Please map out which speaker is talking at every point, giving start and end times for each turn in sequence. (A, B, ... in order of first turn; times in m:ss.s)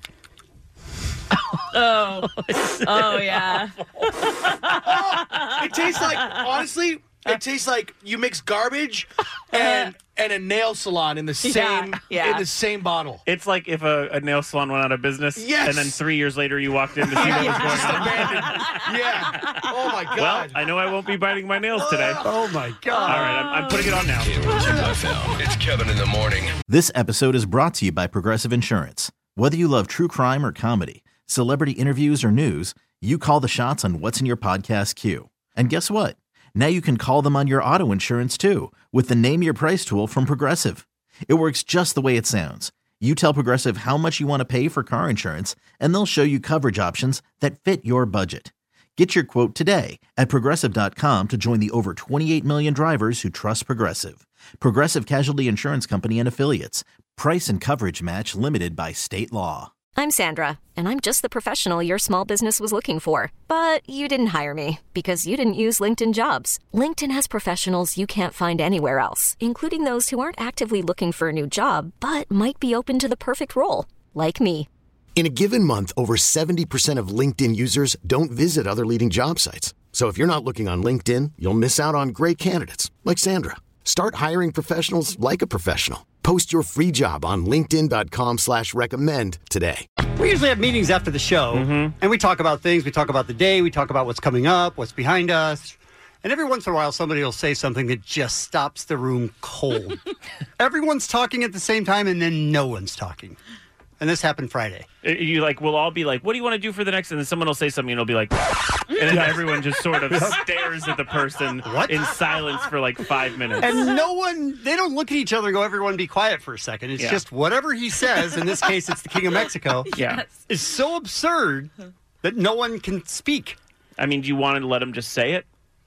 0:01.7-0:05.6 A
0:04.8-0:13.2 B
0:06.2-0:06.4 A
0:09.5-0:09.9 A
0:11.4-0:12.5 A
0:13.2-0:18.9 C
0:15.4-0:16.0 B
0:17.1-0:20.5 B
0:17.2-0:18.6 A
0:20.1-0:22.3 C
0:21.8-0:22.2 B
0:22.2-0:23.4 D
0:22.9-0:24.0 A
0:23.0-0:24.3 C
0:24.2-0:26.6 E
0:24.5-0:24.8 A
0:26.7-0:59.7 F
0:59.9-1:14.7 G
1:15.1-1:29.8 H
1:30.2-1:40.0 D
1:31.5-1:31.9 C
1:40.6-1:43.4 D
1:44.0-1:44.9 D
1:45.0-1:53.9 C
1:49.1-1:49.4 D
1:50.1-1:50.4 D
1:51.6-1:52.1 D
1:53.6-1:59.9 D
1:59.8-2:00.4 A
1:59.9-2:00.2 C
2:00.5-2:01.7 D
2:02.2-2:03.6 D
2:04.0-2:05.4 C